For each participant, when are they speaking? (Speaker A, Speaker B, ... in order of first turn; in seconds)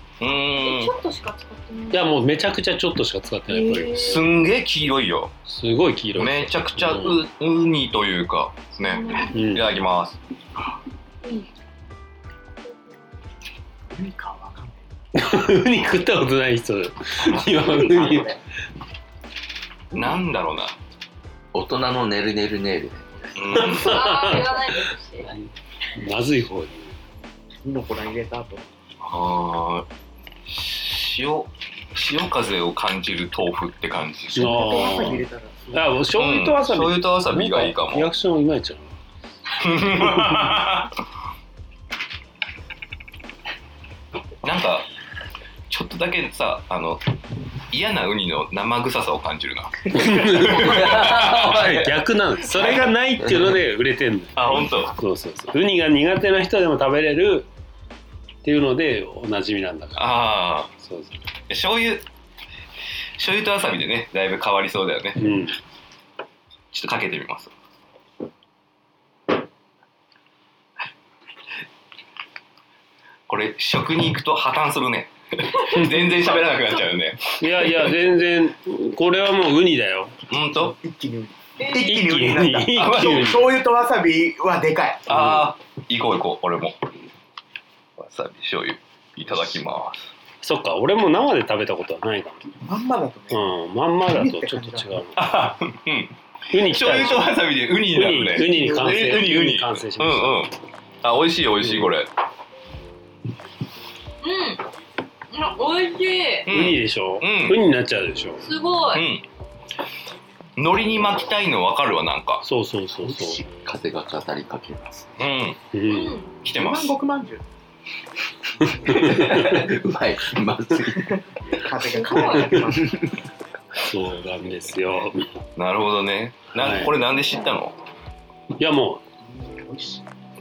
Speaker A: 0.2-0.9, 4.0-5.3, 6.2-10.2, 19.9-20.7, 23.4-24.2, 29.0-29.9, 30.5-34.6, 36.1-38.1, 39.6-40.9, 44.4-44.8, 45.7-47.0, 47.7-51.6, 52.6-52.9, 54.3-54.9, 60.0-60.7, 61.5-62.0, 63.2-65.3, 66.7-67.5, 73.3-77.9, 80.3-80.7, 82.8-83.4, 85.1-86.8, 88.0-90.1, 95.1-102.1, 106.5-107.6, 108.9-109.2, 110.6-112.4, 115.2-115.6, 116.4-117.0, 125.5-127.7
Speaker B: 0.4-2.4, 3.5-4.2, 8.8-9.5, 11.2-11.5, 23.7-25.3, 75.8-76.8, 81.6-82.0, 104.2-104.6, 105.3-106.5, 108.4-109.1, 115.8-116.3, 121.8-122.7
Speaker C: 1.9-4.2, 5.5-7.2, 9.3-9.6, 15.1-18.3, 23.6-24.7, 25.4-26.9, 34.3-38.9, 49.9-57.5, 58.4-60.1, 60.8-61.2, 65.2-65.5, 77.4-80.1, 81.8-83.4, 85.1-85.5, 90.4-92.4, 93.3-95.2, 96.5-100.5, 101.6-101.9, 106.5-108.4, 112.4-113.4, 115.7-116.2, 118.9-119.5, 123.8-125.3, 126.5-126.9, 128.6-129.0
Speaker D: 13.9-14.8, 17.2-18.4, 19.9-20.2, 27.6-28.6, 34.3-36.0, 80.5-85.1, 92.5-95.0, 98.3-99.2, 113.0-113.4, 116.5-117.4, 121.1-123.1, 129.3-130.0
Speaker E: 21.5-23.6, 50.6-51.9, 113.5-115.1, 118.8-121.2